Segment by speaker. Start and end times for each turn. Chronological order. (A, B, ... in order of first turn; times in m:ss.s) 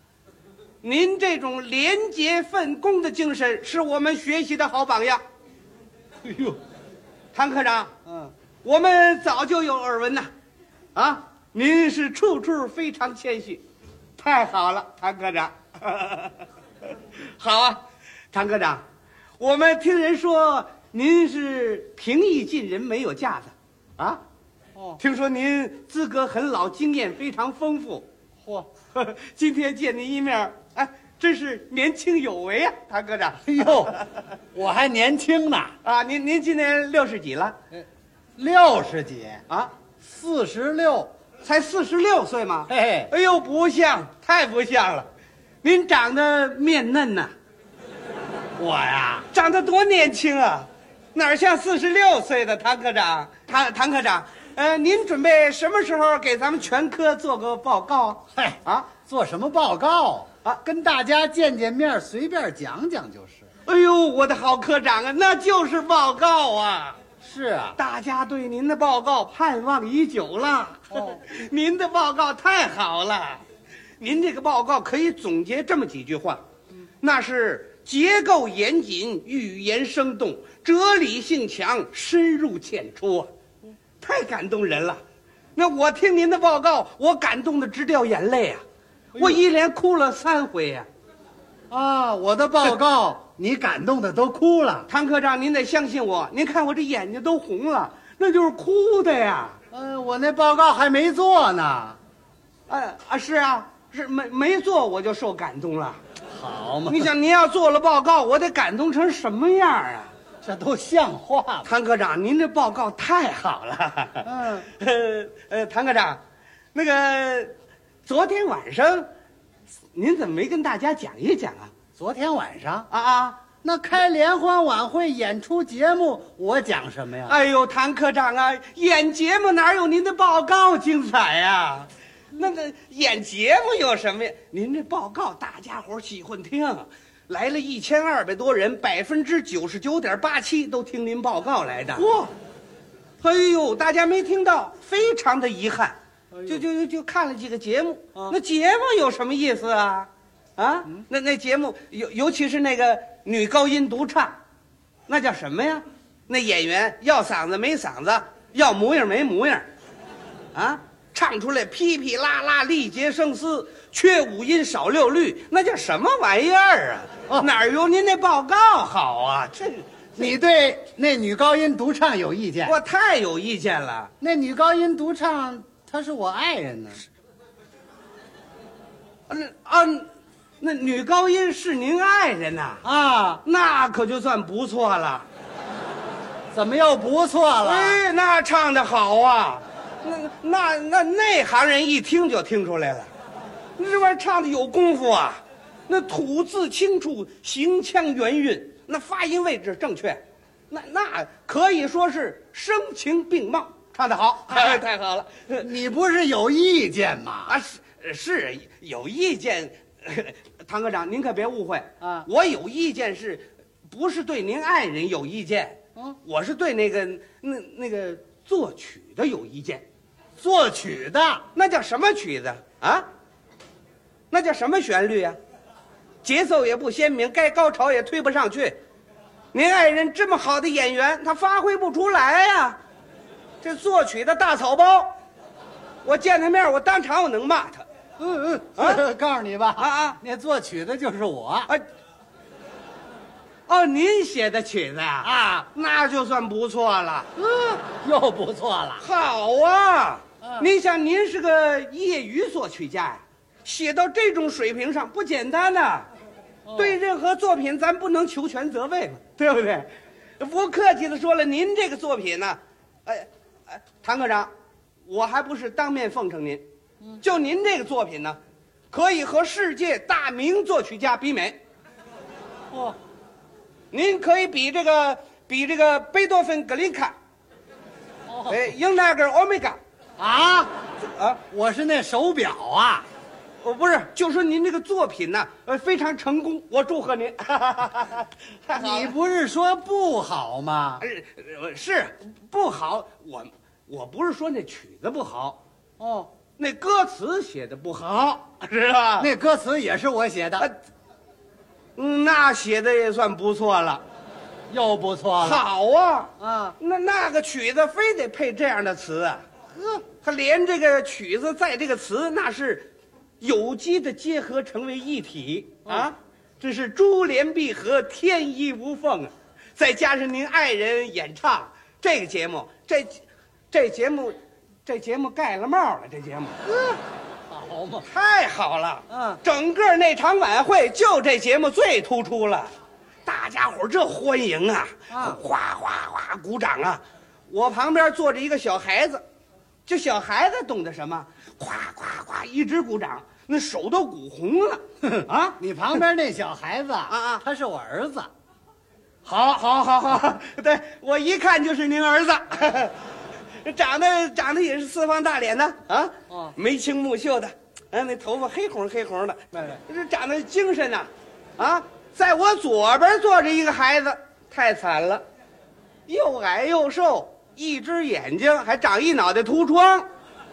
0:00.8-0:05.2 A
0:06.2-0:06.6 B
0:07.3-0:07.9 A
0:08.0-0:08.3 B
0:08.6-0:10.3 A
0:10.9-0:13.6 A
0:14.2-0:18.8 A
0:19.4-0:24.2 A
0:24.8-0:25.0 B
0:25.0-0:28.0 A
0:28.4-0:28.7 B
0:28.9-0:34.2 A
0:33.4-0:33.9 B
0:34.5-0:35.7 B
0:35.8-0:37.6 A
0:38.4-0:39.4 B
0:40.0-0:41.1 B
0:41.4-0:45.1 A
0:42.7-0:43.1 B
0:45.6-0:47.3 A
0:48.6-0:49.3 B
0:49.3-0:58.9 A
0:58.4-1:03.4 B
1:03.6-1:07.0 A
1:07.2-1:07.8 B
1:07.8-1:13.4 A
1:10.9-1:11.2 B
1:14.0-1:16.4 A
1:17.0-1:23.3 A
1:24.0-1:25.0 A
1:25.6-1:28.6 A
1:29.1-1:29.4 B
1:29.2-1:30.9 A
1:31.7-1:34.9 B
1:34.9-1:39.6 A
1:39.7-1:42.0 B
1:42.7-1:46.0 A
1:46.3-1:47.1 B
1:46.9-1:50.1 A
1:50.4-1:51.7 B
1:51.6-1:56.2 A
1:54.2-1:54.7 B
1:56.7-1:57.5 A
1:58.0-1:59.1 A
1:59.9-2:01.7 A
2:02.0-2:02.9 B
2:02.9-2:03.4 A
2:03.6-2:07.4 B
2:07.2-2:22.3 A
2:23.2-2:34.4 A
2:26.3-2:26.6 B
2:35.1-2:39.7 A
2:40.5-2:50.4 A
2:50.2-2:52.7 B
2:52.6-2:54.1 A
2:54.2-2:57.1 B
2:59.3-3:00.1 A
3:00.6-3:02.8 A
3:02.8-3:03.4 B
3:03.4-3:05.3 A
3:06.5-3:08.0 B
3:07.6-3:13.1 A
3:13.8-3:25.7 A
3:24.5-3:24.8 B
3:25.6-3:27.6 B
3:27.5-3:39.8 A
3:32.0-3:32.3 B
3:40.4-3:41.4 B
3:41.5-3:43.1 A
3:44.3-3:45.4 A
3:46.2-3:48.8 A
3:49.5-3:52.8 A
3:53.6-3:55.1 A
3:56.0-3:57.8 A
3:58.2-4:01.7 B
3:58.8-3:59.0 A
3:59.8-4:00.2 A
4:03.7-4:07.3 A
4:05.2-4:05.7 B
4:07.4-4:09.0 B
4:09.0-4:16.1 A
4:10.4-4:10.7 B
4:16.7-4:17.0 B
4:16.7-4:19.9 A
4:20.4-4:24.5 A
4:25.1-4:26.6 A
4:27.2-4:28.4 A
4:28.9-4:31.6 A
4:33.9-4:37.1 A
4:38.3-4:38.7 B
4:38.5-4:39.8 A
4:40.2-4:40.7 B
4:41.0-4:41.4 A
4:41.5-4:43.0 B
4:43.6-4:49.1 A
4:48.7-4:51.0 B
4:51.0-4:55.6 A
4:56.0-4:56.3 B
4:56.6-4:59.3 A
4:59.2-5:00.7 B
5:02.0-5:04.0 A
5:04.7-5:05.6 B
5:05.4-5:09.4 A
5:06.4-5:06.8 B
5:10.2-5:12.9 A
5:13.4-5:26.6 A
5:15.8-5:16.1 B
5:26.6-5:28.1 B
5:28.0-5:32.7 A
5:29.1-5:29.4 B
5:33.2-5:39.2 A
5:35.1-5:35.4 B
5:39.9-5:46.0 A
5:45.0-5:48.3 B
5:47.1-5:47.4 A
5:49.2-5:53.0 A
5:53.6-6:05.2 A
5:56.3-5:56.5 B
6:06.1-6:10.1 A